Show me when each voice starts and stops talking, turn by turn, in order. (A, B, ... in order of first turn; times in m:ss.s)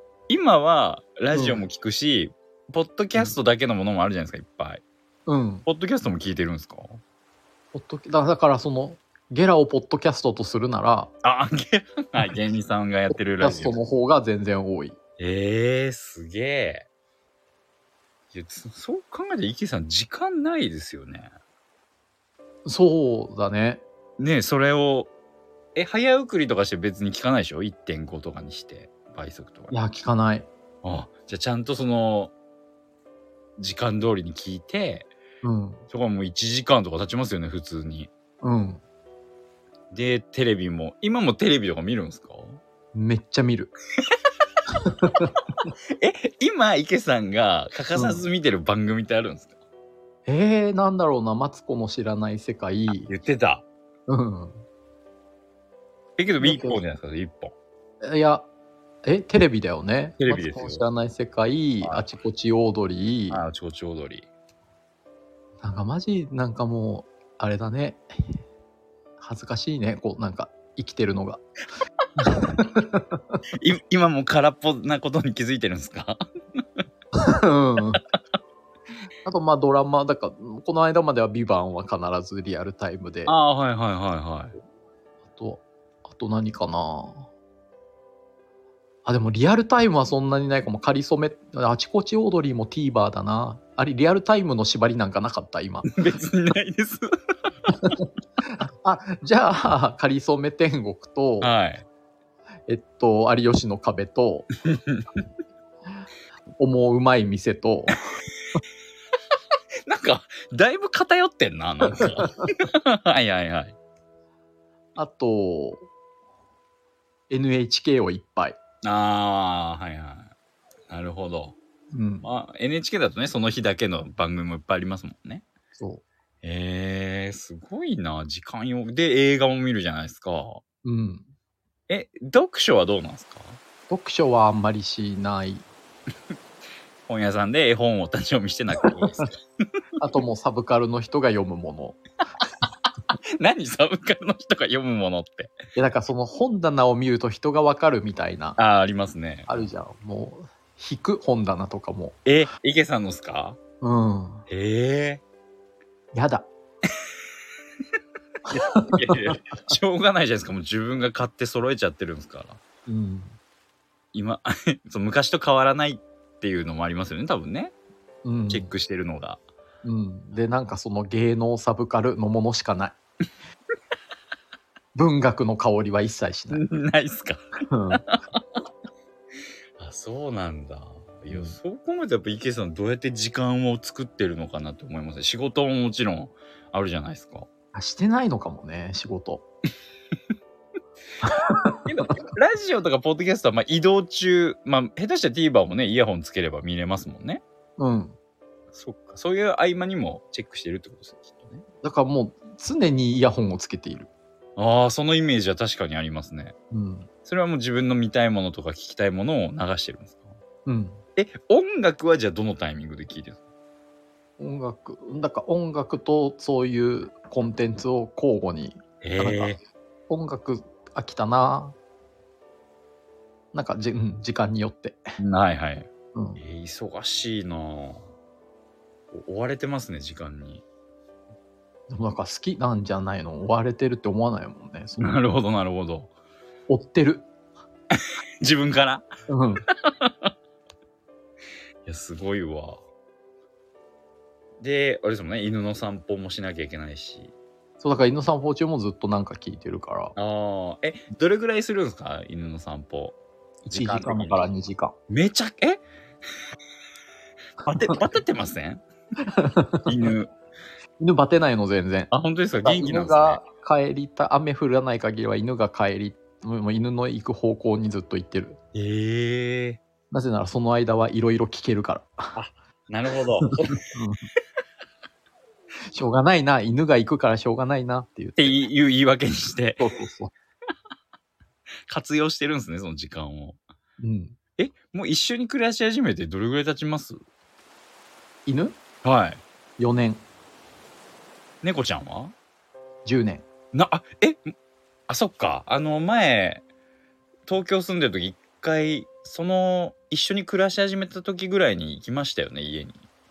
0:00.3-0:04.8 A
0:01.3-0:01.6 B
0:05.3-0:05.7 B
0:05.7-0:07.0 A
0:07.7-0:11.1 B
0:11.2-0:13.8 A
0:13.1-0:15.0 B
0:15.2-0:16.9 A
0:18.3-0:21.3 A
0:22.6-0:23.8 B
0:24.2-0:25.1 A
0:25.8-0:29.7 A
0:29.7-0:30.5 B
0:30.8-0:32.3 A
0:33.6-0:35.1 A
0:35.4-0:35.8 B
0:35.9-0:38.1 A
0:38.4-0:38.8 B
0:39.9-0:42.6 A
0:42.9-0:43.7 B
0:44.8-0:45.7 B
0:46.0-0:49.5 A
0:47.9-0:48.2 B
0:50.3-0:53.1 B
0:53.1-0:53.6 A
0:54.1-0:54.6 B
0:56.2-0:57.5 A
0:56.4-0:56.8 B
0:58.0-0:58.5 B
0:59.0-1:03.4 B
1:00.2-1:00.8 A
1:01.8-1:02.1 A
1:03.3-1:04.3 A
1:05.6-1:08.0 B
1:09.2-1:11.4 B
1:12.2-1:13.4 B
1:13.6-1:16.8 A
1:17.2-1:18.0 B
1:19.2-1:23.4 B
1:23.3-1:24.5 A
1:25.3-1:27.3 B
1:29.0-1:35.9 B
1:35.9-1:37.1 A
1:37.7-1:41.5 B
1:41.4-1:41.9 A
1:42.7-1:44.5 B
1:44.6-1:45.2 A
1:46.6-1:48.0 B
1:49.9-1:53.8 A
1:52.0-1:52.5 B
1:55.0-1:55.9 B
1:57.3-1:58.6 B
1:58.8-2:00.3 A
2:00.9-2:01.6 A
2:01.9-2:02.3 B
2:02.2-2:05.4 A
2:05.8-2:06.0 B
2:06.4-2:10.6 A
2:10.8-2:11.3 B
2:11.9-2:13.6 A
2:13.9-2:15.7 B
2:17.1-2:19.4 A
2:18.9-2:19.2 B
2:20.0-2:22.0 B
2:23.4-2:25.6 A
2:25.8-2:28.6 B
2:28.6-2:29.5 A
2:29.5-2:32.2 B
2:32.2-2:33.6 A
2:33.8-2:34.5 B
2:34.5-2:35.2 A
2:36.1-2:36.5 B
2:38.5-2:39.4 B
2:38.5-2:42.6 A
2:42.9-2:43.4 B
2:44.1-2:47.7 A
2:48.2-2:48.7 B
2:48.5-2:49.4 A
2:49.8-2:53.0 B
2:55.0-2:56.6 B
2:56.5-2:57.4 A
2:57.7-2:58.0 B
2:57.9-2:58.4 A
2:59.8-3:07.5 A
3:01.3-3:01.6 B
3:07.7-3:09.4 B
3:11.2-3:12.1 B
3:11.8-3:17.4 A
3:17.8-3:18.2 B
3:18.7-3:21.6 A
3:21.8-3:24.1 B
3:24.6-3:26.6 A
3:26.7-3:27.1 B
3:27.2-3:30.4 A
3:30.7-3:31.0 B
3:31.2-3:33.4 A
3:34.4-3:41.8 B
3:39.0-3:39.6 A
3:43.5-3:45.0 B
3:45.2-3:48.1 A
3:46.2-3:46.4 B
3:49.1-3:50.6 A
3:51.9-3:55.2 B
3:55.0-3:56.1 A
3:56.7-3:57.3 B
3:57.9-3:59.1 A
3:59.3-3:59.7 B
3:59.7-4:00.3 A
4:01.8-4:02.8 A
4:04.6-4:07.3 A
4:07.8-4:10.2 B
4:10.2-4:13.2 A
4:13.6-4:15.0 B
4:13.7-4:14.5 A
4:15.1-4:15.8 A
4:17.6-4:18.8 A
4:17.7-4:18.0 B
4:19.2-4:19.9 B
4:19.9-4:20.3 A
4:21.0-4:22.1 B
4:22.1-4:23.4 A
4:22.6-4:28.6 B
4:28.7-4:29.8 A
4:30.1-4:32.3 B
4:32.4-4:33.8 A
4:33.8-4:34.3 B
4:35.9-4:38.6 B
4:38.4-4:39.8 A
4:39.8-4:40.3 B
4:41.9-4:43.6 A
4:44.0-4:44.4 B
4:44.6-4:47.2 A
4:48.5-4:48.8 B
4:49.0-4:49.4 A
4:49.8-4:50.2 B
4:51.6-4:52.4 A
4:53.0-4:53.5 B
4:53.7-4:54.5 A
4:55.1-4:56.6 A
4:57.5-5:03.0 A